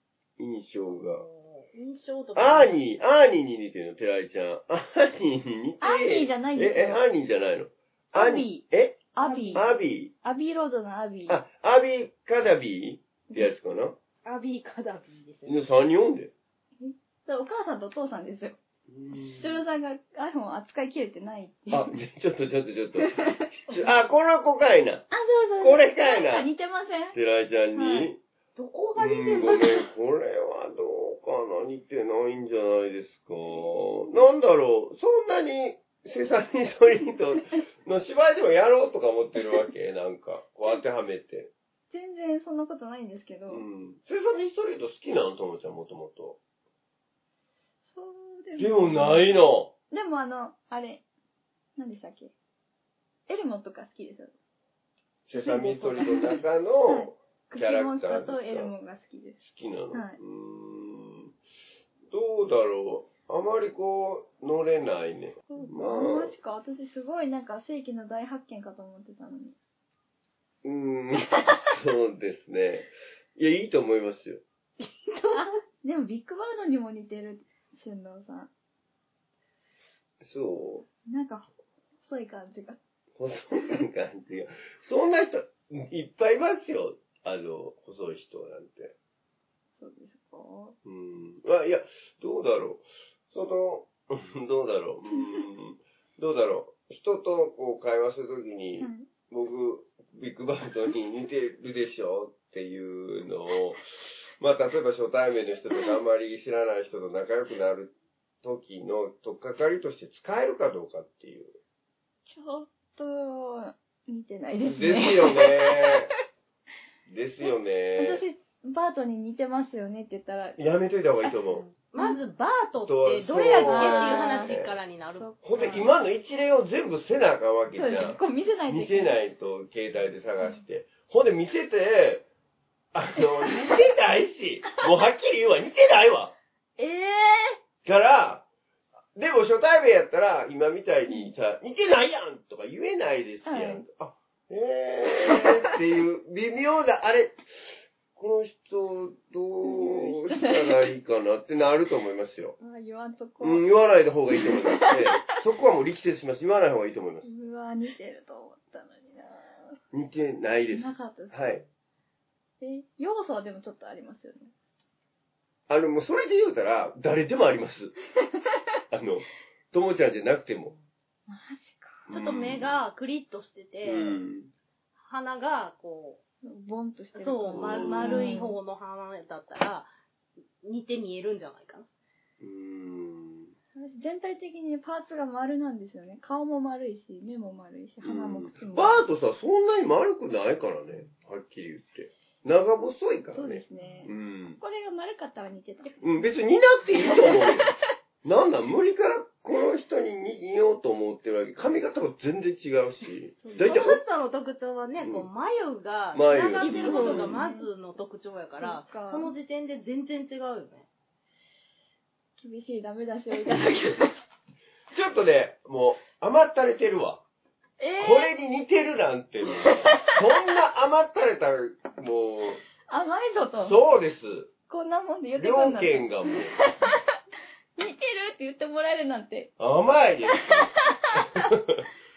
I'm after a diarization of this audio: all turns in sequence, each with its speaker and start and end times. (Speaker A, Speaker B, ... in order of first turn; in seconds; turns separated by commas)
Speaker A: 0.4-1.2, Speaker B: 0.9-2.8, Speaker A: 2.4-9.0, Speaker C: 5.8-7.0, Speaker C: 8.1-9.7, Speaker B: 9.2-9.8, Speaker A: 9.5-10.1, Speaker C: 10.2-11.4, Speaker A: 11.3-14.0, Speaker B: 14.2-15.6, Speaker A: 15.5-16.3, Speaker C: 16.8-18.6, Speaker A: 18.9-19.6, Speaker C: 19.4-21.9, Speaker A: 21.7-25.1, Speaker C: 23.0-23.5, Speaker C: 25.1-27.2, Speaker A: 25.6-26.5, Speaker A: 27.1-28.2, Speaker C: 27.8-28.1, Speaker B: 28.6-29.9, Speaker A: 29.0-41.5, Speaker C: 41.9-43.6, Speaker A: 43.5-46.4, Speaker C: 47.9-51.0, Speaker A: 48.6-49.7, Speaker C: 51.8-52.3, Speaker C: 53.3-54.3, Speaker A: 55.3-58.7, Speaker C: 55.4-59.4, Speaker B: 55.5-56.1, Speaker A: 59.4-61.3, Speaker C: 59.9-60.2, Speaker A: 62.1-66.3, Speaker C: 65.5-69.6, Speaker A: 70.6-74.4, Speaker B: 74.8-75.5, Speaker C: 75.3-78.5, Speaker A: 80.2-80.9, Speaker C: 81.1-81.5, Speaker C: 82.0-82.8, Speaker A: 83.2-88.9, Speaker C: 89.7-90.8, Speaker A: 90.8-103.8, Speaker C: 98.8-99.1, Speaker A: 104.4-111.6, Speaker C: 112.3-116.0, Speaker A: 114.7-116.1, Speaker A: 117.1-118.2, Speaker C: 118.0-120.6, Speaker A: 120.6-121.6, Speaker B: 121.5-125.9, Speaker C: 122.0-122.2, Speaker A: 122.9-124.8, Speaker C: 123.6-124.6, Speaker C: 125.2-125.9, Speaker A: 125.5-132.3, Speaker C: 127.8-129.2, Speaker A: 132.9-136.3, Speaker C: 133.4-133.8, Speaker C: 136.8-137.6, Speaker A: 137.8-138.4, Speaker A: 139.2-147.4, Speaker C: 143.5-143.8, Speaker C: 145.3-145.6, Speaker A: 148.2-152.6, Speaker C: 149.6-150.9, Speaker C: 152.6-153.7, Speaker A: 153.4-157.3, Speaker C: 154.4-155.3, Speaker C: 157.2-159.8, Speaker A: 159.9-161.6, Speaker C: 160.7-161.6, Speaker C: 162.6-164.5, Speaker A: 165.7-168.0, Speaker A: 168.9-170.7, Speaker C: 171.3-172.1, Speaker A: 172.1-172.8, Speaker B: 172.1-174.2, Speaker A: 173.8-174.5, Speaker B: 175.0-176.2, Speaker C: 176.4-178.6, Speaker B: 177.2-179.9, Speaker A: 177.5-178.3, Speaker B: 180.6-181.9, Speaker A: 182.4-183.5, Speaker C: 183.8-189.1, Speaker A: 188.0-194.6, Speaker C: 193.3-196.0, Speaker A: 196.0-204.0, Speaker C: 197.0-197.8, Speaker B: 203.4-210.9, Speaker A: 205.0-205.3, Speaker A: 206.1-207.4, Speaker C: 206.6-207.7, Speaker C: 208.6-209.3, Speaker C: 212.4-214.2, Speaker A: 214.9-217.2, Speaker C: 217.8-218.3, Speaker A: 218.0-222.6, Speaker C: 219.6-220.1, Speaker C: 222.9-223.8, Speaker A: 223.7-224.5, Speaker C: 224.7-227.0, Speaker A: 225.4-226.6, Speaker C: 227.8-229.5, Speaker A: 229.6-230.7, Speaker C: 230.3-231.5